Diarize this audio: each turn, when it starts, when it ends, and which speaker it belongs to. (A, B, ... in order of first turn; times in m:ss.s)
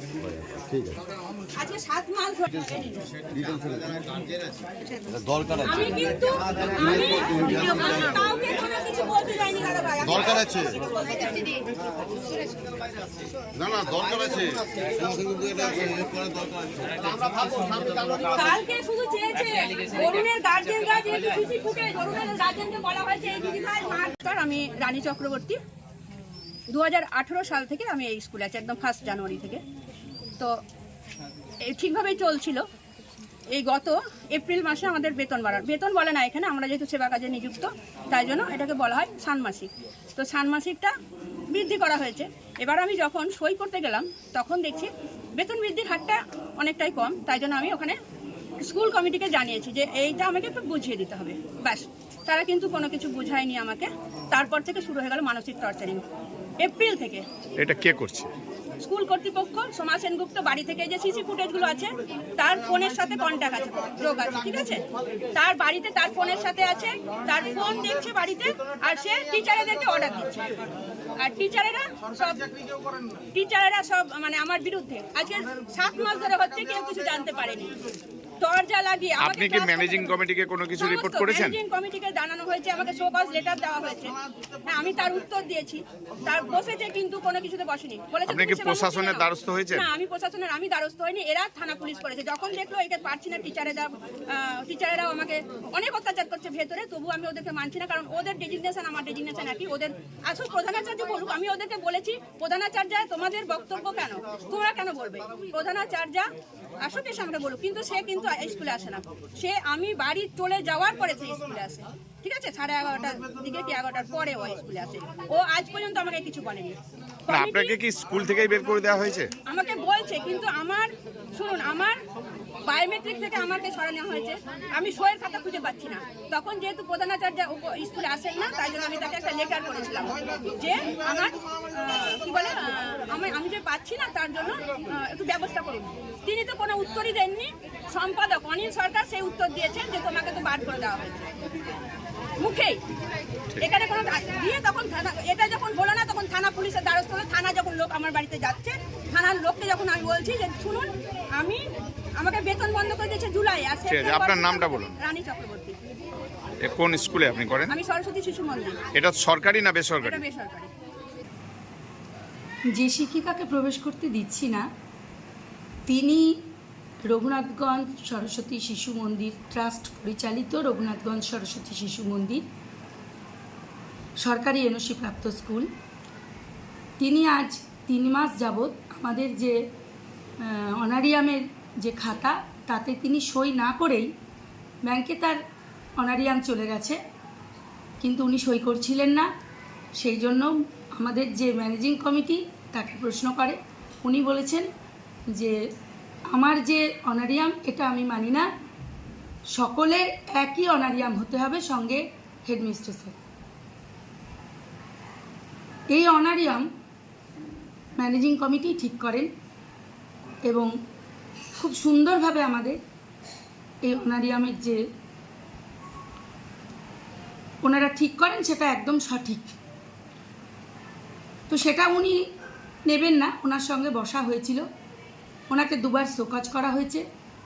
0:00.2-0:01.0 A
0:01.6-0:03.1 B
0:03.3-0:04.3 A
0:05.1-0:05.6 A
0:05.6-0:11.6 B
0:10.2-0:10.7 A
0:13.6-0:16.9 A
0:18.2-0:25.6 B
0:26.7-0:29.6 B
0:31.6-0:32.6 B
0:33.5-0:40.9 B
0:41.5-0:48.0 B
0:48.6-0:56.0 B
0:56.6-0:57.2 B
0:57.6-0:58.3 C
0:58.8-1:04.8 B
1:05.4-1:10.4 B
1:11.2-1:12.5 B
1:13.3-1:17.7 B
1:18.4-1:20.2 B
1:19.2-1:21.6 C
1:20.8-1:46.3 B
1:28.3-1:29.9 C
1:46.8-1:57.8 B
1:57.3-1:59.3 C
1:59.5-2:02.0 B
2:02.6-2:21.3 B
2:22.4-2:22.8 B
2:23.6-2:31.6 B
2:32.2-2:35.8 B
2:33.9-2:35.0 C
2:36.6-2:37.7 C
2:37.7-2:38.8 B
2:38.9-2:40.2 C
2:40.0-2:40.7 B
2:42.8-2:44.6 D
2:45.9-2:46.4 D
2:47.1-2:52.4 D
2:54.2-2:55.7 D
2:57.0-2:59.6 D
3:00.4-3:04.1 D
3:04.9-3:05.4 D
3:06.0-3:07.0 D
3:08.0-3:09.3 D
3:10.0-3:14.7 D
3:16.3-3:18.5 D
3:19.6-3:23.2 D
3:25.9-3:26.7 D
3:28.0-3:29.3 D
3:31.6-3:32.8 D
3:33.9-3:34.8 D
3:37.6-3:39.6 D
3:41.5-3:42.2 D
3:42.9-3:44.6 D
3:45.5-3:47.0 D